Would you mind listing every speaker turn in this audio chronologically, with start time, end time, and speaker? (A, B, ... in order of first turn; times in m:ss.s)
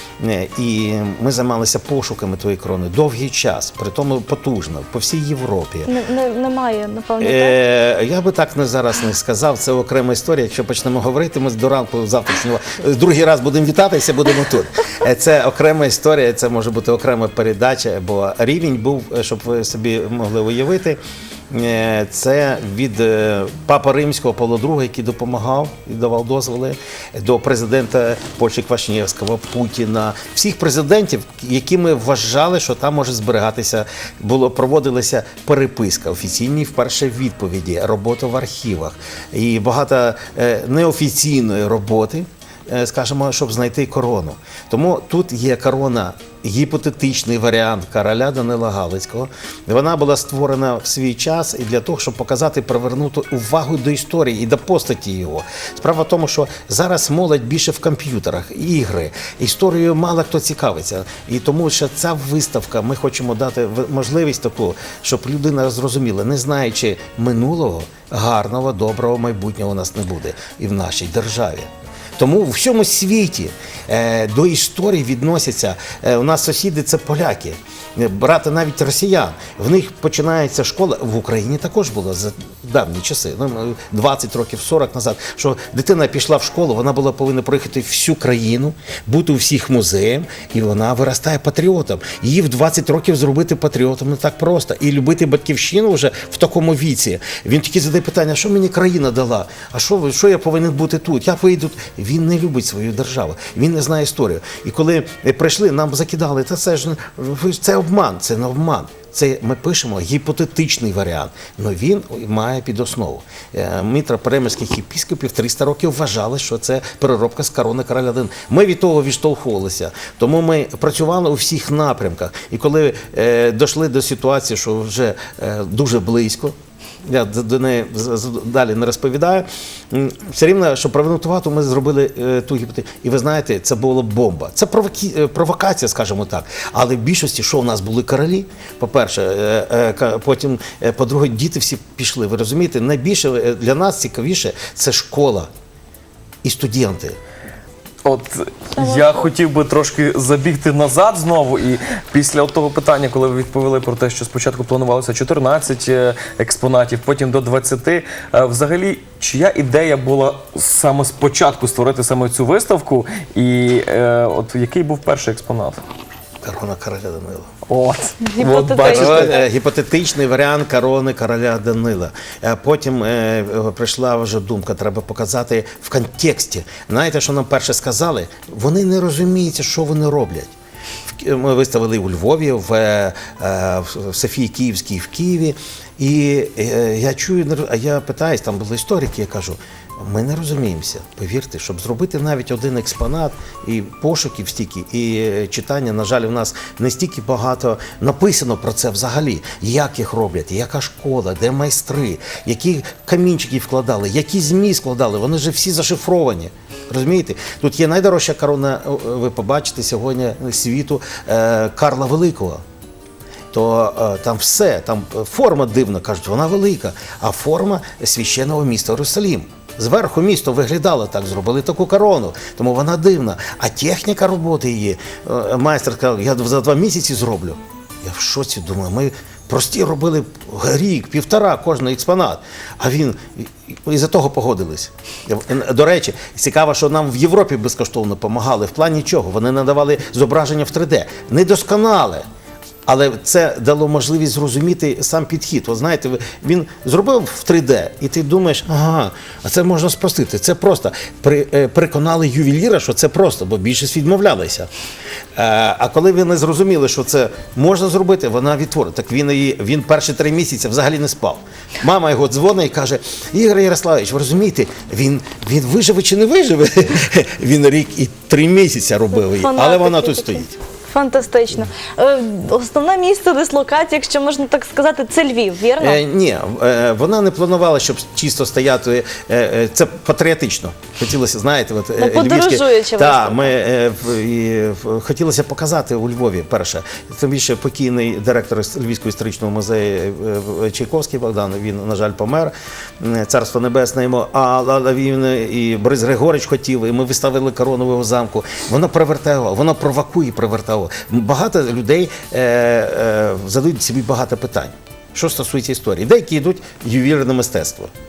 0:00.2-0:05.9 A
0:05.9-0:07.6 B
0:07.2-2:25.5 A
2:26.4-2:27.2 A
2:28.0-2:45.8 C
2:28.8-2:29.3 B
2:46.4-2:47.5 A
2:47.7-2:49.4 C
2:48.2-2:49.4 B
2:48.8-3:00.5 A
3:01.1-3:32.6 A
3:33.5-4:02.2 A
4:02.8-4:14.7 A
4:15.4-4:30.5 A
4:29.3-4:36.0 B
4:35.8-5:07.9 A
4:42.0-4:43.5 B